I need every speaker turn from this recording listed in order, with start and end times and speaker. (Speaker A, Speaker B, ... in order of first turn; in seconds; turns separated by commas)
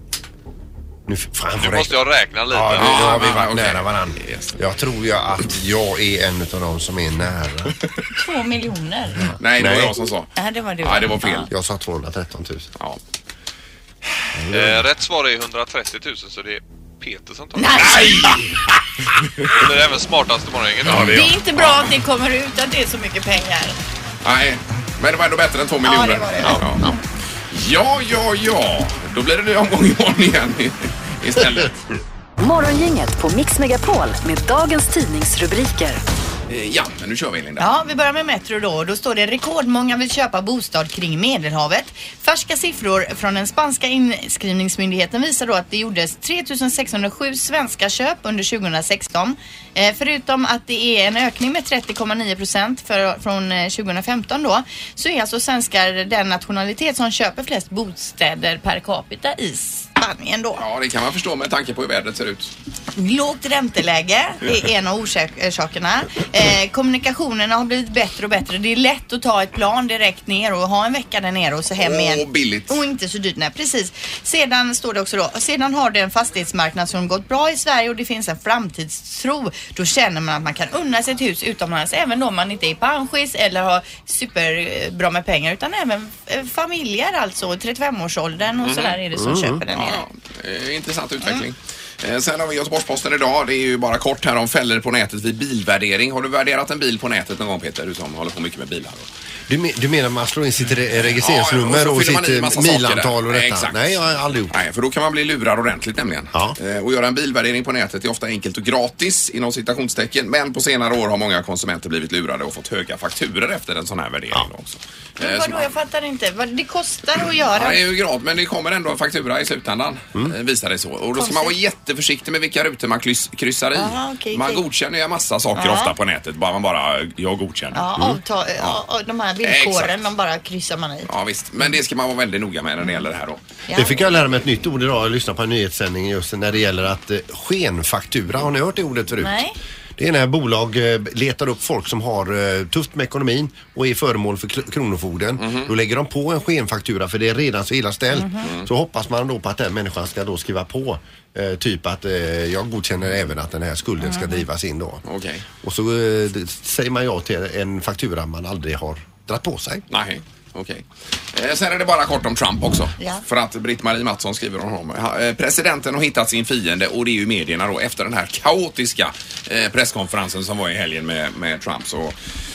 Speaker A: 1.1-7.7, Speaker B: 1.6-3.3, Speaker C: 2.7-4.6, Speaker D: 8.1-9.3, Speaker A: 9.2-10.0, Speaker C: 9.4-11.5, Speaker D: 10.4-11.5, Speaker A: 11.5-12.7, Speaker A: 14.4-14.8, Speaker B: 14.5-17.9, Speaker D: 17.6-18.4, Speaker C: 17.8-18.6, Speaker B: 19.5-21.1, Speaker A: 20.9-21.3, Speaker C: 20.9-21.9, Speaker D: 21.0-23.8, Speaker C: 24.2-26.9, Speaker D: 25.8-27.0, Speaker C: 27.5-31.8, Speaker E: 32.4-36.0, Speaker C: 36.5-37.7, Speaker D: 37.6-60.6, Speaker C: 60.6-62.5, Speaker D: 63.0-90.0, Speaker C: 71.7-72.8, Speaker C: 88.6-89.0, Speaker A: 89.2-89.6, Speaker C: 89.7-99.1, Speaker A: 99.5-104.5, Speaker C: 101.1-103.9, Speaker C: 104.5-115.7, Speaker D: 115.2-117.8, Speaker C: 117.5-127.8, Speaker D: 121.2-121.6, Speaker D: 123.8-124.6, Speaker D: 125.6-125.9, Speaker D: 127.7-131.1, Speaker C: 129.4-130.1, Speaker C: 131.1-133.4, Speaker D: 133.7-134.0, Speaker A: 133.8-139.4, Speaker D: 139.2-139.6, Speaker A: 140.0-155.0, Speaker C: 145.4-145.7, Speaker D: 148.1-148.5, Speaker D: 154.0-154.4, Speaker C: 155.1-155.4, Speaker A: 155.6-159.8, Speaker C: 159.9-172.2